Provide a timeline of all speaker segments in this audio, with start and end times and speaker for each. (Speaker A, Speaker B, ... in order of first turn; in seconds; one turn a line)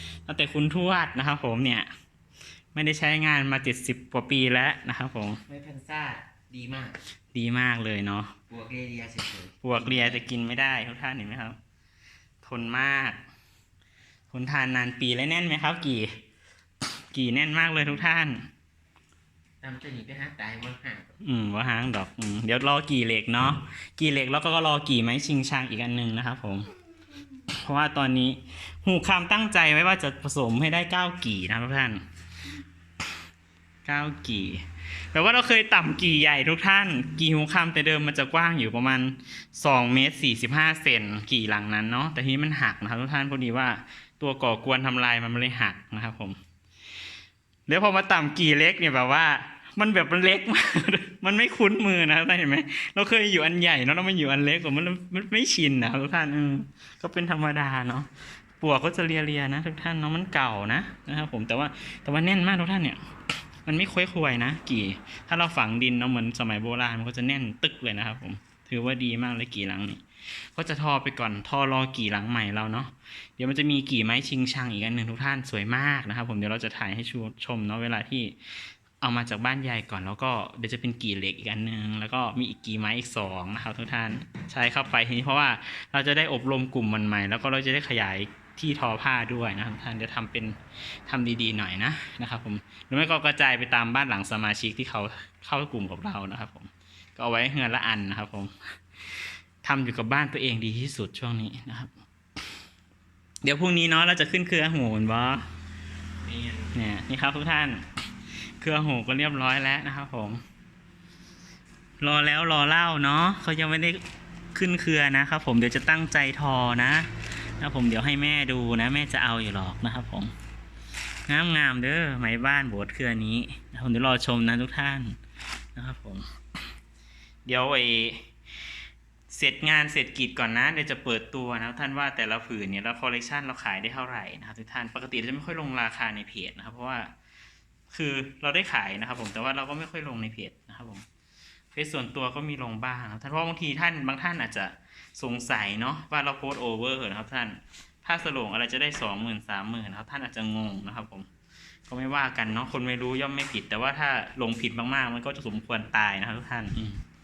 Speaker A: 0.3-1.9
Speaker A: 2.7-5.4
Speaker B: 5.5-7.0
Speaker A: 7.3-8.3
Speaker B: 8.5-10.2
Speaker A: 9.6-11.6
Speaker A: 12.4-13.2
Speaker A: 14.3-16.1
Speaker A: 17.1-18.5
Speaker B: 19.6-21.2
Speaker A: 21.2-26.7
Speaker A: 27.5-32.0
Speaker A: 33.9-46.4
Speaker A: 47.7-58.1
Speaker A: 58.6-63.0
Speaker A: 63.6-78.4
Speaker A: 79.0-98.5
Speaker A: 99.1-101.9
Speaker A: 103.4-105.5
Speaker B: 106.3-106.7
Speaker A: 106.7-107.8
Speaker A: 108.6-110.4
Speaker A: 112.0-114.0
Speaker A: 114.5-120.3
Speaker A: 121.3-125.2
Speaker A: 125.8-126.3
Speaker A: 127.5-128.3
Speaker A: 129.3-137.1
Speaker A: 137.9-141.1
Speaker A: 141.7-151.3
Speaker A: 151.9-157.0